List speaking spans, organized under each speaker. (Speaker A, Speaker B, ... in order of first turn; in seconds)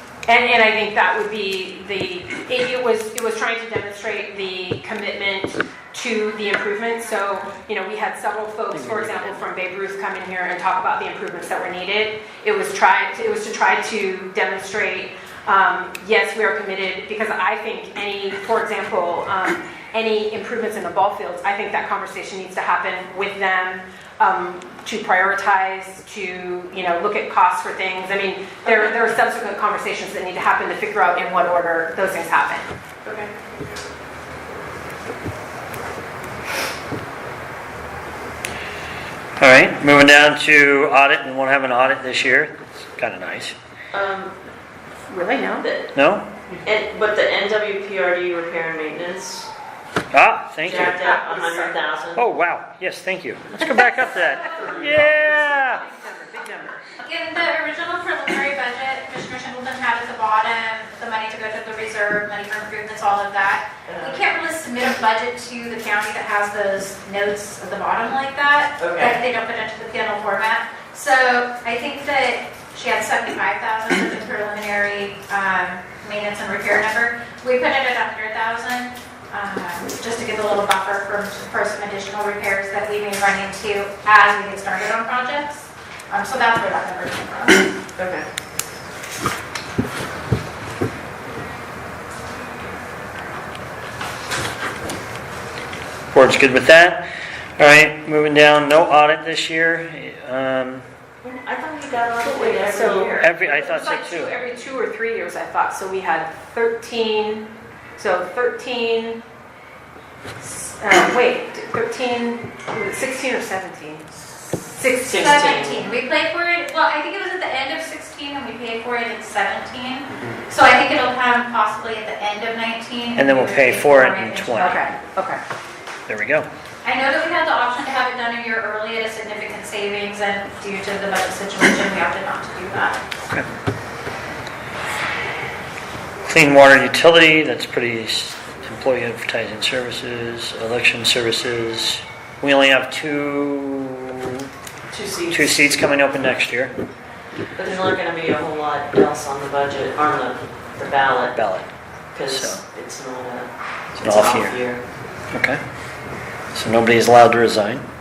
Speaker A: 0.2-32.6, 45.1-45.7, 54.8-56.8, 102.3-109.2, 110.4-115.5, 124.6-125.4
Speaker B: 8.8-9.1, 39.4-43.5, 45.9-46.3, 50.1-51.0, 52.1-55.8, 96.1-97.1, 97.6-100.8, 103.2-104.3, 123.2-124.8, 126.1-126.5, 136.3-144.5, 145.3-146.7, 151.3-151.7, 152.3-152.6, 154.0-154.6, 155.3-155.6, 156.5-157.8
Speaker C: 33.0-33.3, 43.9-44.3, 45.6-45.9, 46.6-49.5, 50.6-52.2, 63.9-64.3, 68.8-69.2, 88.0-88.2, 101.2-103.3, 115.0-115.9, 144.9-145.6, 147.6-151.3, 152.1-154.8
Speaker D: 57.0-87.7, 115.2-124.9, 126.8-133.0